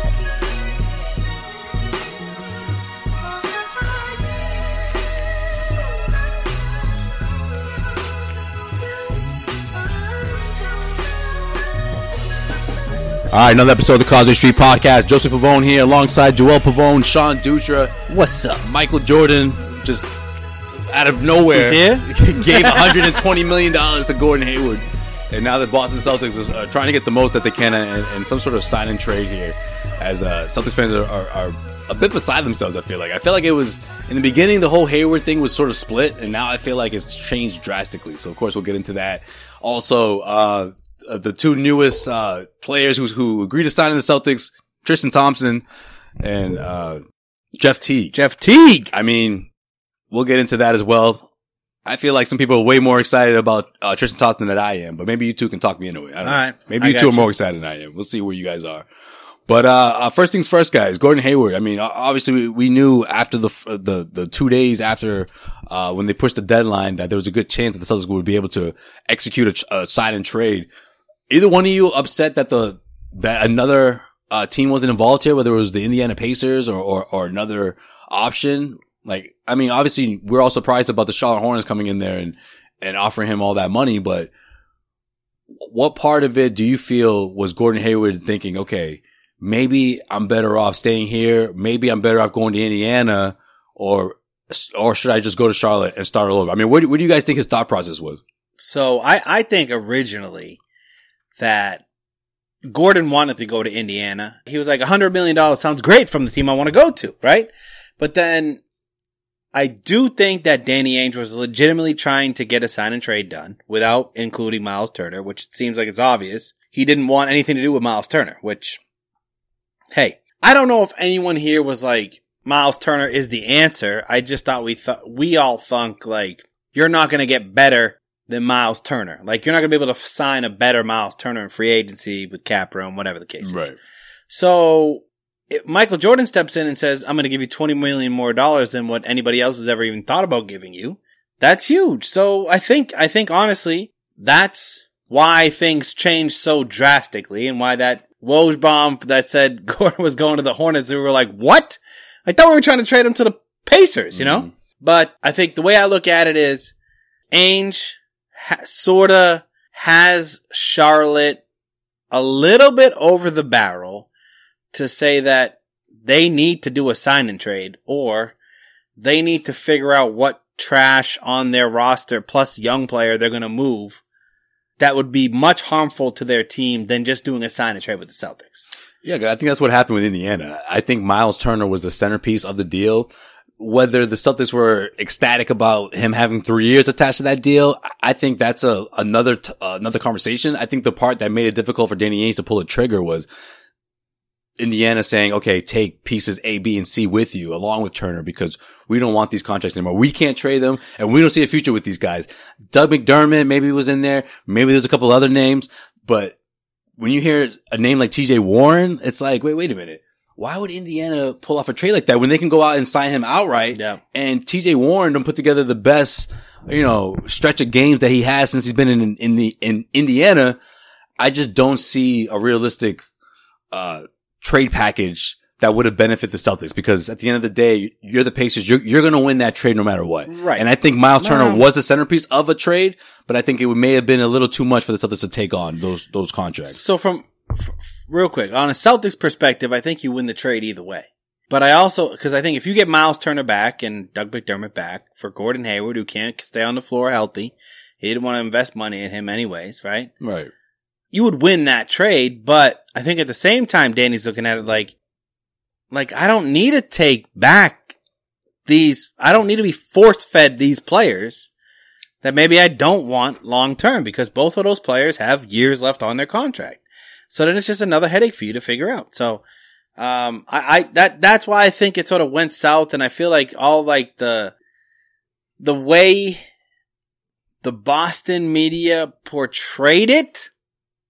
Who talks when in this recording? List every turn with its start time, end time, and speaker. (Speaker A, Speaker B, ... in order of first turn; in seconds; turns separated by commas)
Speaker A: 13.3-17.9, Speaker B: 18.1-18.6, Speaker A: 18.6-20.1, Speaker A: 20.9-45.6, Speaker B: 21.5-23.2, Speaker A: 46.2-47.0, Speaker A: 47.6-48.1, Speaker B: 48.1-48.9, Speaker A: 48.9-49.5, Speaker A: 50.1-51.2, Speaker A: 51.8-58.9, Speaker B: 56.2-57.3, Speaker A: 59.5-70.7, Speaker A: 71.3-84.3, Speaker A: 85.6-98.2, Speaker B: 98.6-100.6, Speaker B: 101.3-101.8, Speaker B: 102.7-108.6, Speaker B: 109.5-118.8, Speaker B: 119.9-133.7, Speaker A: 133.4-133.8, Speaker B: 134.3-156.7, Speaker A: 154.1-154.5, Speaker B: 157.3-161.4, Speaker B: 162.1-164.1, Speaker B: 164.7-168.3, Speaker B: 169.0-174.0, Speaker B: 174.8-178.6, Speaker A: 179.0-193.3, Speaker A: 194.6-206.3, Speaker A: 207.0-220.6, Speaker B: 213.7-214.0, Speaker A: 221.2-223.0, Speaker A: 223.7-236.8, Speaker B: 230.3-230.6, Speaker B: 231.2-231.6, Speaker B: 236.7-250.1, Speaker A: 250.2-250.5, Speaker B: 251.1-254.9, Speaker B: 255.9-257.9, Speaker B: 258.6-261.5, Speaker B: 262.2-269.4, Speaker B: 270.0-274.5, Speaker B: 275.6-276.4, Speaker B: 277.6-280.5